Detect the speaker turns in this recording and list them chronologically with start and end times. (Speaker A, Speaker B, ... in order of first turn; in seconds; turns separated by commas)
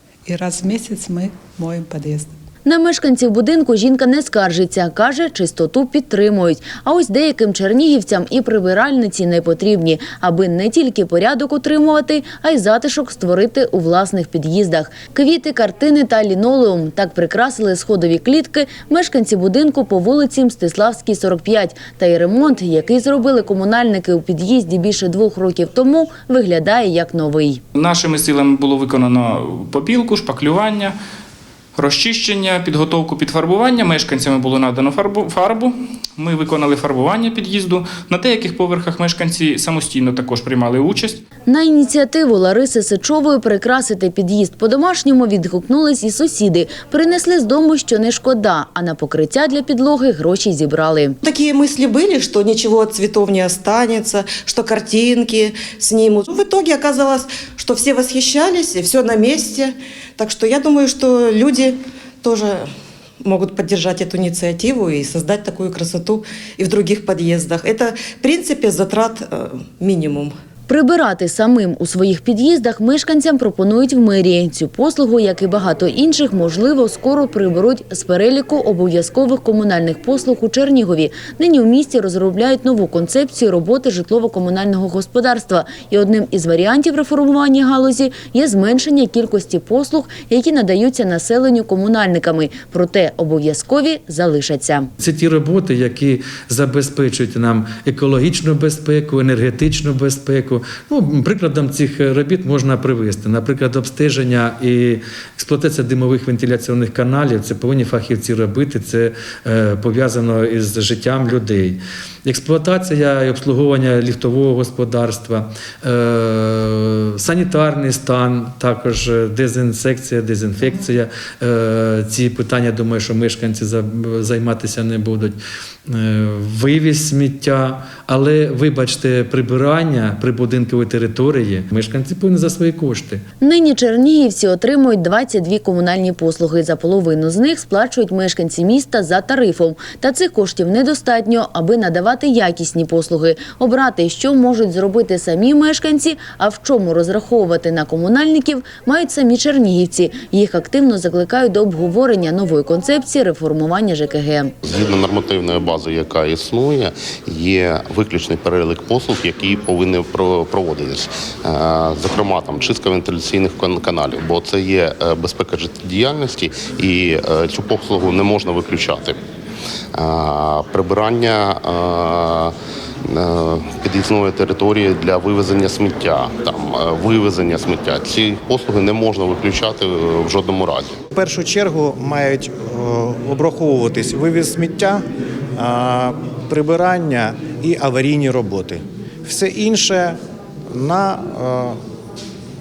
Speaker A: 0.2-2.3, Speaker B: 2.6-27.6, Speaker C: 27.7-30.9, Speaker C: 31.7-41.2, Speaker B: 41.5-51.2, Speaker D: 51.2-62.6, Speaker D: 63.3-70.3, Speaker B: 70.7-94.9, Speaker E: 95.0-133.2, Speaker B: 133.4-154.5, Speaker F: 154.6-169.2, Speaker F: 169.9-172.5, Speaker F: 173.1-180.9, Speaker G: 181.1-185.0, Speaker G: 185.6-190.2, Speaker G: 190.7-191.8